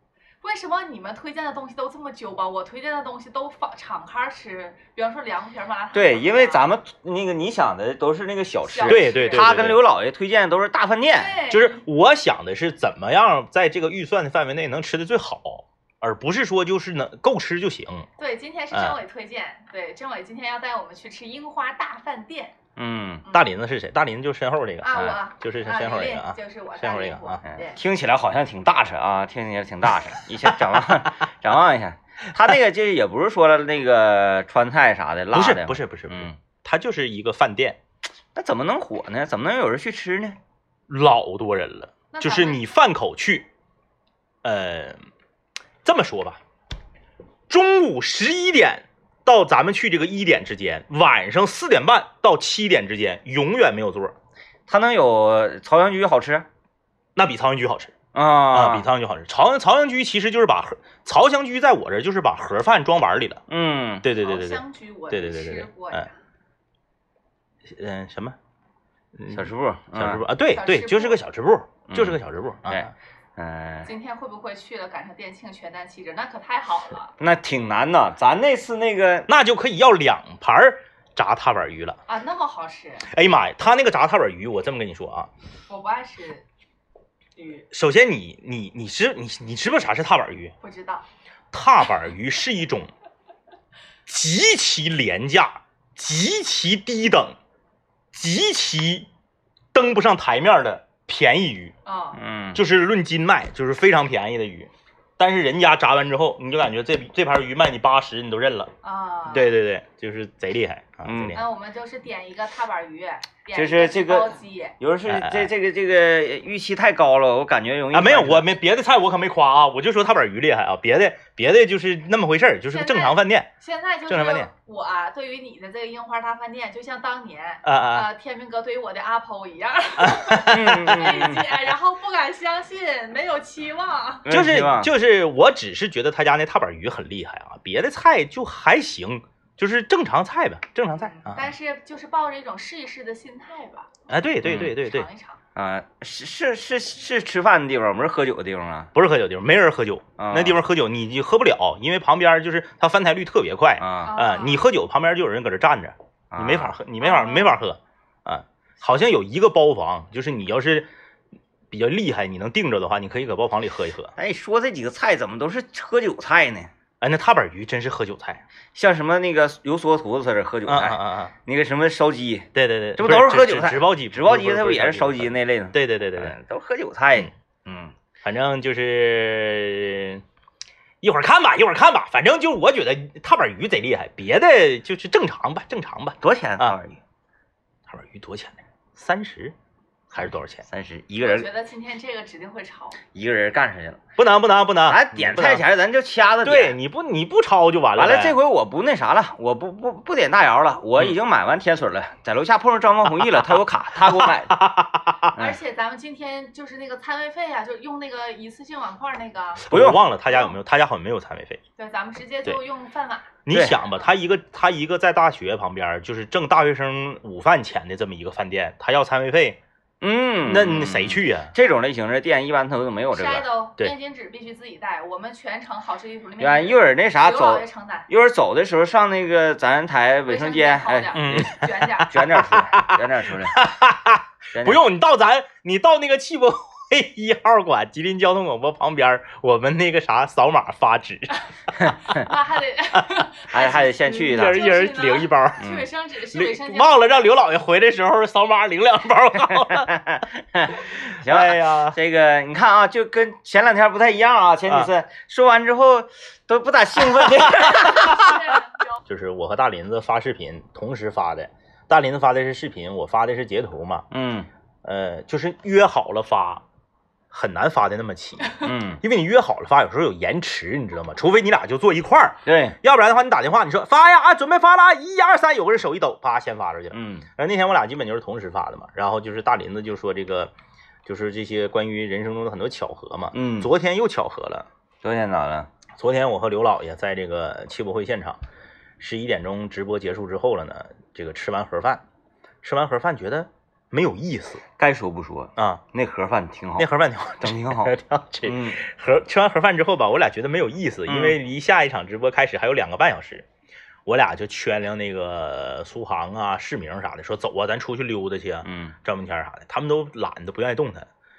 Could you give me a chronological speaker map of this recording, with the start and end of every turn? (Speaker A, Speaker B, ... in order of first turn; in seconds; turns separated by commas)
Speaker A: 0.4-6.7, Speaker B: 5.9-11.4, Speaker A: 8.7-9.6, Speaker C: 8.9-9.8, Speaker A: 11.2-11.8, Speaker C: 11.5-18.1, Speaker A: 18.2-22.5, Speaker C: 18.7-19.0, Speaker B: 22.8-23.2, Speaker C: 23.3-27.4, Speaker A: 24.8-27.8, Speaker B: 24.9-25.2, Speaker B: 27.4-36.4, Speaker C: 35.3-37.8, Speaker B: 38.4-40.4, Speaker C: 40.9-43.5, Speaker A: 42.1-42.6, Speaker C: 44.4-45.0, Speaker C: 45.8-46.4, Speaker C: 47.5-54.1, Speaker B: 54.7-56.5, Speaker C: 57.2-58.0, Speaker B: 58.1-58.9, Speaker C: 58.5-63.4, Speaker B: 63.5-64.1, Speaker C: 64.0-66.1, Speaker A: 64.1-66.1, Speaker C: 67.7-68.4, Speaker C: 69.2-72.9, Speaker B: 69.3-70.2, Speaker A: 70.5-71.2, Speaker B: 71.9-73.9, Speaker A: 73.8-77.1, Speaker B: 77.2-79.3, Speaker C: 79.3-82.0, Speaker A: 82.1-83.1, Speaker C: 83.0-85.3, Speaker A: 85.7-86.5, Speaker A: 87.4-87.7, Speaker C: 87.7-90.5, Speaker A: 90.6-91.0, Speaker C: 91.5-92.9, Speaker C: 94.1-97.4, Speaker C: 98.1-99.1, Speaker C: 99.7-101.8, Speaker A: 101.8-102.2, Speaker B: 102.1-102.6, Speaker C: 102.5-108.7, Speaker A: 108.8-109.5, Speaker C: 109.3-111.4, Speaker B: 111.0-111.4, Speaker A: 111.3-114.8, Speaker B: 113.5-118.5, Speaker C: 115.1-115.5, Speaker C: 117.9-123.5, Speaker A: 122.7-134.3, Speaker C: 124.1-124.5, Speaker C: 127.6-128.1, Speaker C: 130.0-131.3, Speaker B: 130.4-131.5, Speaker B: 134.2-134.9, Speaker C: 134.3-141.5, Speaker A: 141.0-144.0, Speaker C: 144.1-145.1, Speaker B: 144.4-144.7, Speaker A: 144.7-145.4, Speaker B: 145.6-148.9, Speaker C: 148.9-160.9, Speaker B: 150.2-150.6, Speaker B: 153.8-154.1, Speaker A: 154.1-154.7, Speaker B: 156.3-156.8, Speaker A: 157.0-157.6, Speaker C: 161.7-164.1, Speaker B: 164.2-166.7, Speaker C: 167.0-168.4, Speaker B: 168.8-177.9, Speaker C: 170.7-171.3, Speaker C: 172.5-176.3, Speaker C: 178.2-180.2, Speaker C: 181.0-186.8, Speaker B: 186.2-187.0, Speaker C: 187.9-189.6, Speaker C: 190.1-190.6, Speaker B: 190.7-191.5, Speaker A: 191.2-193.0, Speaker B: 193.1-194.0, Speaker C: 194.2-195.6, Speaker B: 194.9-196.8, Speaker C: 196.4-198.4, Speaker B: 198.0-204.6, Speaker C: 203.3-205.4, Speaker A: 205.4-209.7, Speaker C: 209.7-211.6, Speaker B: 209.7-210.0, Speaker A: 211.8-213.4, Speaker C: 213.5-219.6, Speaker B: 213.5-213.8, Speaker B: 220.0-223.5, Speaker C: 220.5-221.5, Speaker A: 223.1-228.1, Speaker B: 226.4-233.6, Speaker A: 230.3-232.4, Speaker C: 231.1-241.4, Speaker B: 234.5-234.8, Speaker B: 241.7-242.3, Speaker A: 242.0-247.3, Speaker B: 243.5-244.7, Speaker C: 244.1-245.7, Speaker B: 245.6-245.9, Speaker C: 246.3-249.9, Speaker B: 249.6-258.3, Speaker C: 251.2-252.0, Speaker C: 257.2-258.4, Speaker A: 257.7-258.9, Speaker C: 259.1-264.1, Speaker B: 264.1-264.5, Speaker C: 264.8-266.6, Speaker C: 267.3-280.5, Speaker B: 268.6-269.0, Speaker B: 272.4-272.8, Speaker B: 276.9-277.3, Speaker C: 281.1-284.7, Speaker B: 283.3-283.7, Speaker B: 285.0-285.7, Speaker C: 286.0-288.4, Speaker C: 289.0-292.0, Speaker C: 292.6-294.6, Speaker B: 294.8-296.9, Speaker C: 295.6-295.8, Speaker C: 296.8-303.5, Speaker B: 297.4-298.8, Speaker B: 301.1-301.4, Speaker C: 304.1-311.1, Speaker B: 308.6-308.9